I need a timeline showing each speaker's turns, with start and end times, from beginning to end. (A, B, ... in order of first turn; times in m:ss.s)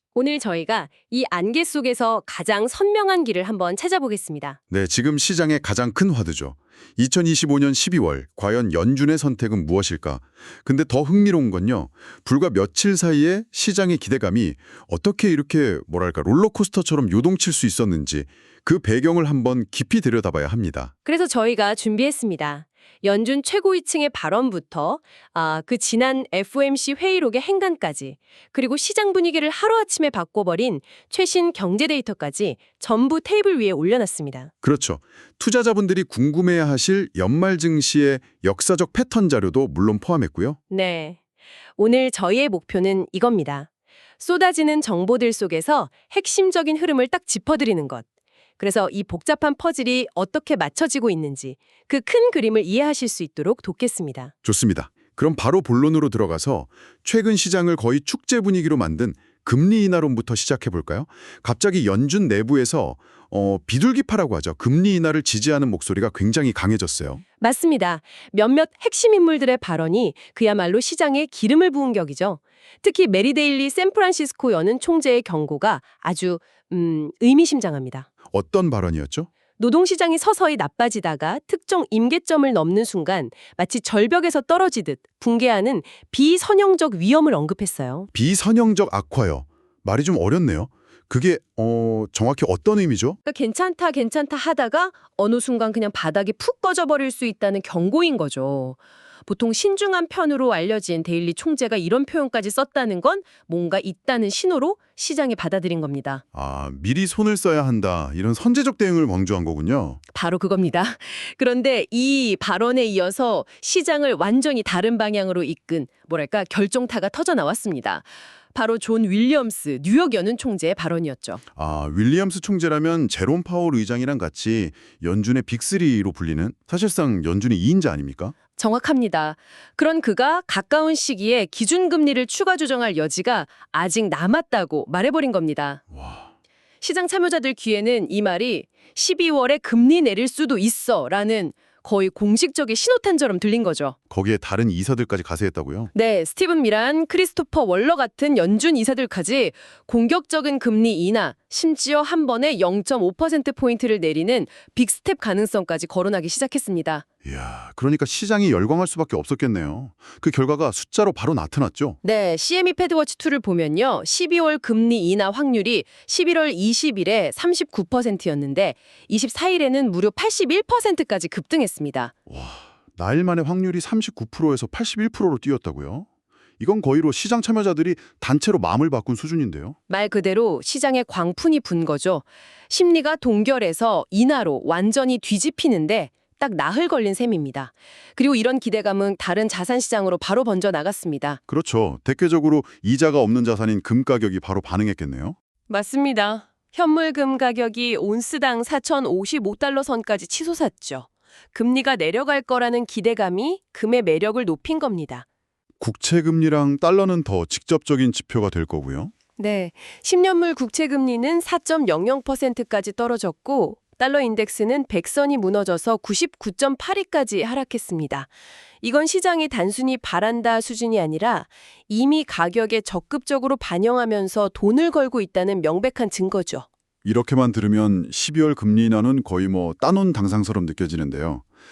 0:00.1-0:04.6 A
0:04.7-0:20.9 B
0:21.0-0:34.5 A
0:34.6-0:40.6 B
0:40.7-0:41.2 A
0:41.8-0:43.7 A
0:44.2-0:48.0 A
0:48.6-0:54.3 A
0:54.4-1:07.2 B
1:07.4-1:18.1 A
1:18.3-1:19.3 B
1:19.6-1:28.1 A
1:28.1-1:33.2 B
1:33.2-1:46.2 A
1:46.3-1:50.0 B
1:50.1-2:01.4 A
2:01.6-2:08.3 B
2:08.6-2:15.8 A
2:15.9-2:16.3 B
2:16.8-2:23.9 A
2:24.1-2:25.9 B
2:25.9-2:37.0 A
2:37.2-2:42.0 B
2:42.0-2:52.1 A
2:52.3-2:56.1 B
2:56.6-2:59.8 B
2:59.9-3:11.4 A
3:11.5-3:15.4 B
3:15.7-3:25.2 A
3:25.8-3:29.1 B
3:29.4-3:38.3 A
3:38.8-3:46.6 A
3:47.0-3:51.4 B